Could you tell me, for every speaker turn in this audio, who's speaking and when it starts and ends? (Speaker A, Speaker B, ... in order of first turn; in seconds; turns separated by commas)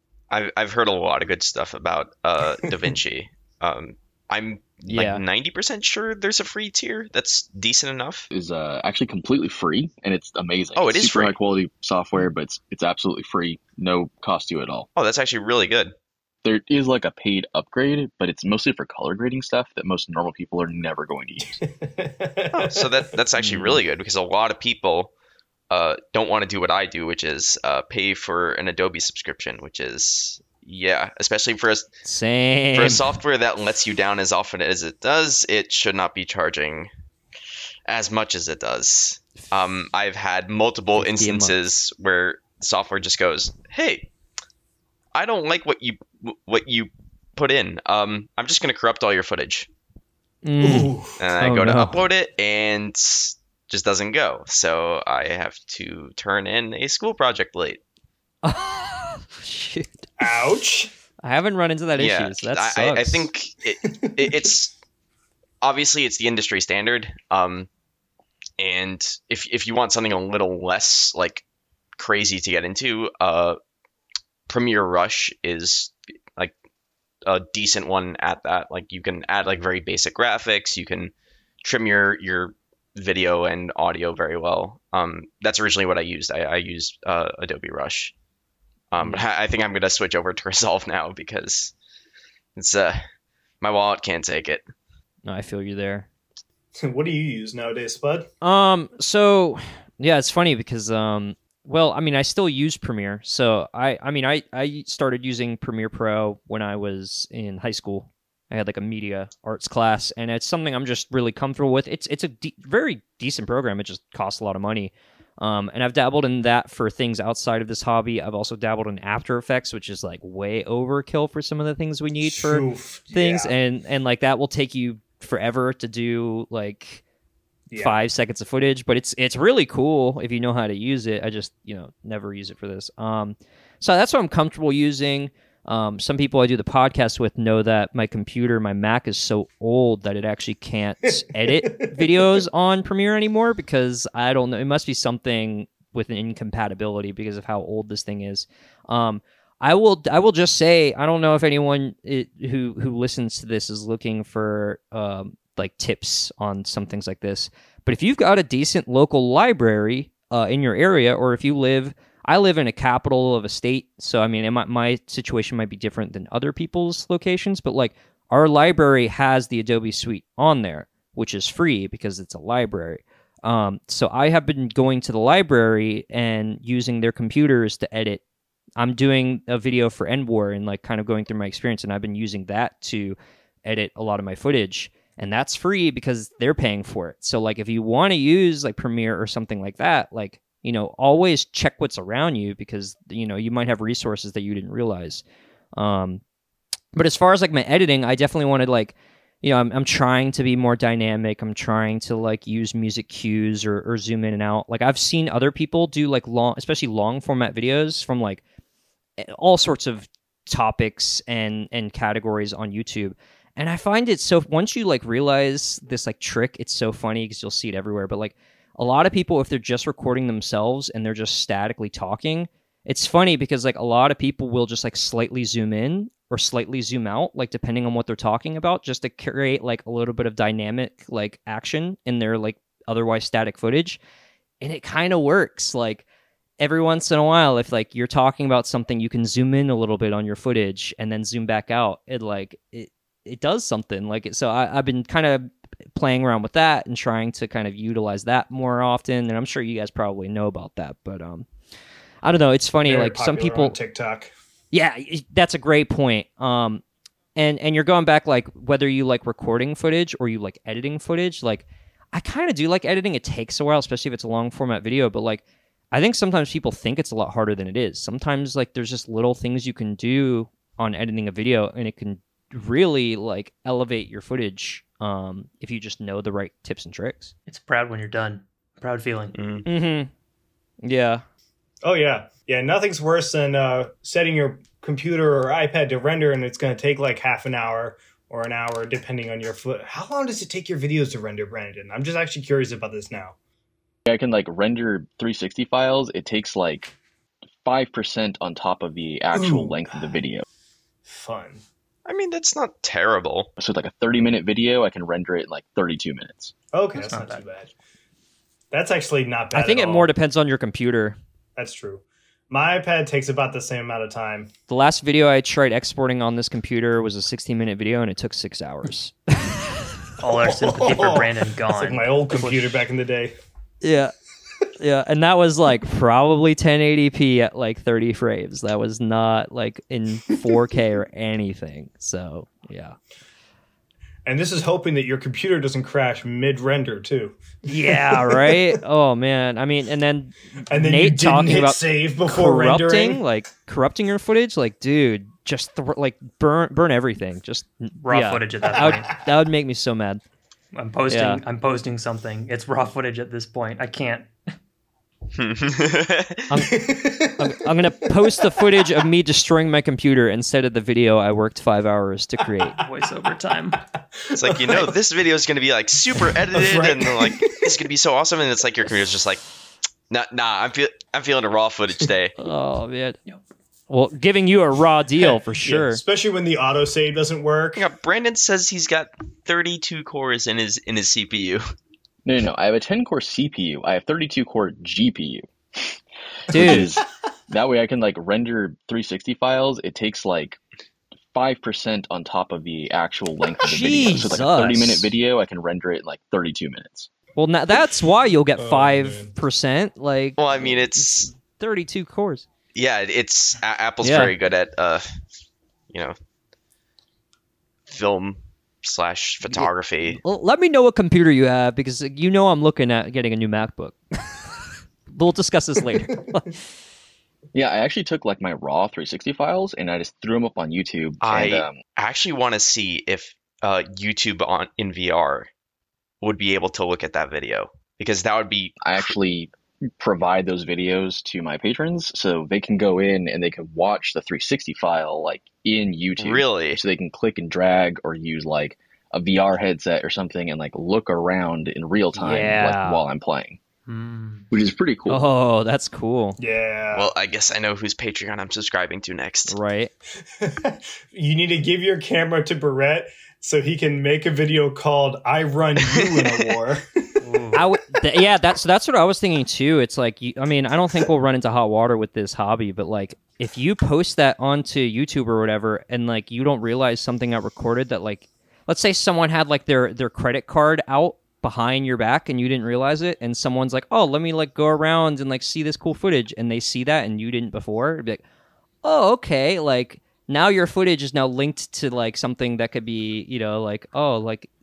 Speaker A: 0.3-8.3, Speaker B: 4.9-5.2, Speaker C: 8.3-14.9, Speaker A: 10.7-11.3, Speaker A: 14.9-15.9, Speaker C: 16.4-21.6, Speaker D: 21.6-22.9, Speaker A: 22.5-25.1, Speaker B: 23.4-23.8, Speaker A: 25.7-31.9, Speaker B: 32.0-33.1, Speaker A: 32.7-36.9, Speaker A: 37.9-44.1, Speaker B: 41.0-41.5, Speaker A: 45.1-49.7, Speaker B: 50.4-52.0, Speaker D: 50.6-51.2, Speaker A: 51.2-57.8, Speaker B: 58.4-60.1, Speaker D: 60.2-60.9, Speaker B: 61.2-63.3, Speaker A: 62.0-64.7, Speaker D: 64.0-64.5, Speaker A: 65.6-67.7, Speaker A: 68.6-71.4, Speaker A: 72.0-73.6, Speaker A: 74.5-76.5, Speaker A: 77.2-88.1, Speaker A: 88.9-91.7, Speaker A: 92.5-93.0, Speaker A: 93.6-94.6, Speaker B: 95.2-96.1, Speaker D: 96.8-98.3, Speaker B: 98.4-127.0, Speaker D: 122.2-123.5, Speaker D: 127.7-128.0, Speaker B: 127.8-178.2, Speaker D: 141.4-142.4, Speaker B: 178.8-195.2, Speaker B: 195.7-196.2, Speaker B: 196.9-208.4, Speaker B: 209.2-234.0, Speaker B: 234.6-236.0, Speaker B: 236.6-251.5, Speaker B: 252.2-253.8, Speaker D: 252.8-254.3, Speaker B: 254.7-256.8, Speaker B: 257.4-277.3, Speaker E: 277.5-279.6, Speaker A: 279.3-279.6, Speaker B: 279.6-280.1, Speaker B: 280.8-281.2, Speaker D: 281.8-293.4, Speaker C: 294.1-296.9, Speaker C: 297.6-300.4, Speaker D: 299.3-300.1, Speaker D: 301.1-301.6, Speaker A: 302.0-303.5, Speaker C: 303.6-306.5, Speaker D: 306.7-307.7, Speaker E: 306.9-307.4, Speaker D: 308.7-310.1, Speaker B: 309.5-311.2, Speaker D: 311.6-314.5, Speaker B: 314.7-319.9, Speaker E: 320.2-322.8, Speaker D: 320.2-323.3, Speaker B: 323.8-324.1, Speaker B: 324.8-333.0, Speaker D: 334.2-338.7, Speaker B: 337.6-350.2, Speaker D: 340.7-343.2, Speaker E: 348.0-349.1, Speaker E: 350.8-354.3, Speaker B: 351.1-351.4, Speaker A: 355.3-356.4, Speaker B: 356.5-362.8, Speaker D: 356.6-357.5, Speaker D: 358.2-359.0, Speaker D: 362.6-364.9, Speaker E: 362.8-363.8, Speaker A: 364.3-369.4, Speaker D: 366.5-367.8, Speaker A: 370.1-372.3, Speaker B: 372.4-373.2, Speaker B: 373.9-376.0, Speaker D: 375.2-377.8, Speaker A: 377.7-381.6, Speaker C: 382.2-386.0, Speaker B: 386.5-386.9, Speaker C: 386.5-390.6, Speaker D: 386.6-386.8, Speaker C: 391.3-397.1, Speaker B: 393.6-395.1, Speaker B: 397.4-402.4, Speaker D: 398.6-399.3, Speaker A: 400.4-401.3, Speaker A: 402.7-405.0, Speaker B: 404.0-404.3, Speaker A: 405.9-406.1, Speaker A: 407.9-410.2, Speaker B: 409.6-414.5, Speaker B: 415.1-416.6, Speaker C: 417.5-421.8, Speaker A: 421.2-425.5, Speaker A: 426.2-429.1, Speaker C: 428.8-443.6, Speaker A: 436.2-436.8, Speaker B: 442.1-443.0, Speaker E: 443.9-444.5, Speaker C: 444.5-445.2, Speaker B: 445.1-446.4, Speaker D: 446.4-447.1, Speaker A: 446.9-449.5, Speaker B: 449.5-449.9, Speaker D: 450.3-457.5, Speaker A: 455.8-456.4, Speaker E: 457.2-457.6, Speaker B: 457.5-478.2, Speaker B: 478.8-484.5